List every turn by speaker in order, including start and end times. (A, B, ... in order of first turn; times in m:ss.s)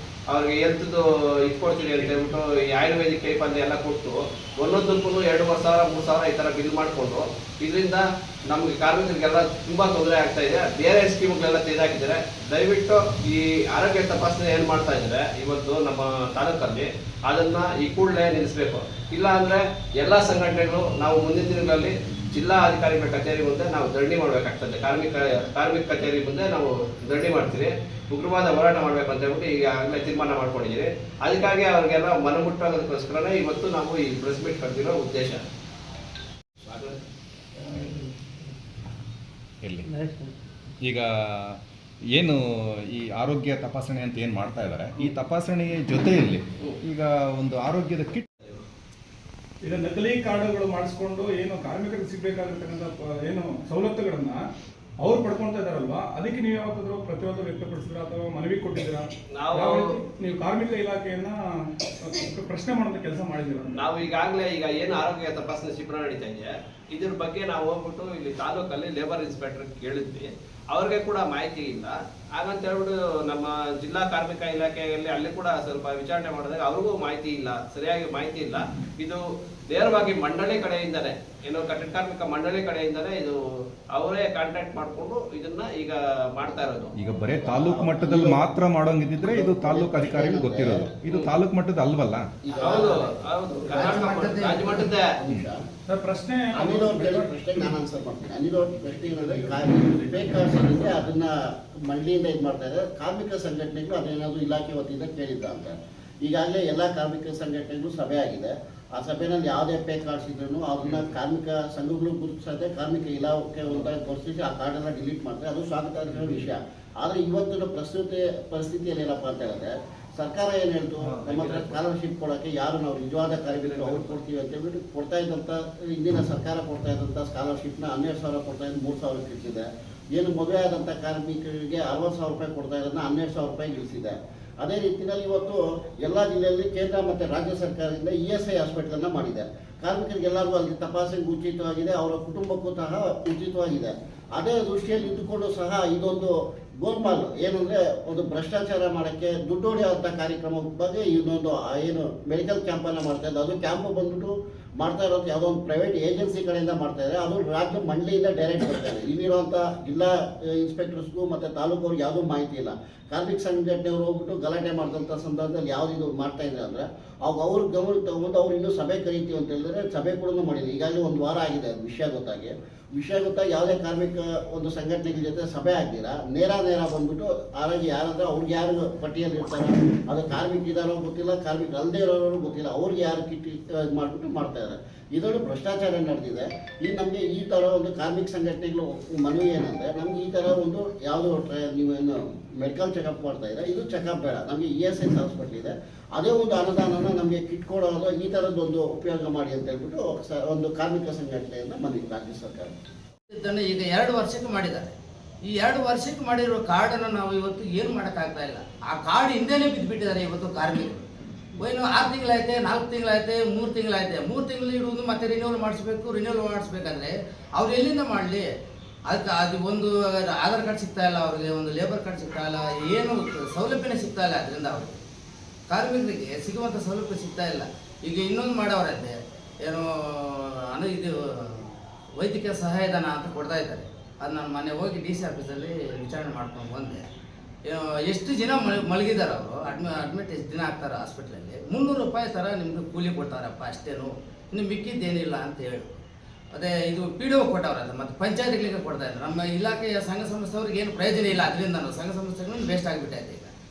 0:00.3-0:35.4 A
0:36.7-0:37.0 A
0:39.6-0:39.9 B
0:42.9-0:48.3 B
0:49.6-0:54.4 C
0:55.0-1:01.4 C
0:59.3-1:00.0 A
1:02.0-1:03.8 C
1:03.7-1:23.4 A
1:23.9-1:26.9 A
1:27.0-1:32.3 B
1:27.3-1:28.5 D
1:29.2-1:30.9 D
1:32.4-1:33.1 D
1:32.6-1:35.1 A
1:33.7-1:34.9 E
1:33.7-1:34.0 D
1:35.2-1:35.6 D
1:35.9-1:37.3 C
1:36.6-3:22.8 D
1:40.0-1:40.8 C
2:01.2-2:01.8 A
2:03.5-2:04.2 A
3:23.3-3:24.9 E
3:25.4-3:31.1 E
3:31.6-3:38.5 E
3:39.1-3:45.0 E
3:45.7-3:57.1 E
3:57.6-4:05.9 E
4:06.5-4:13.5 E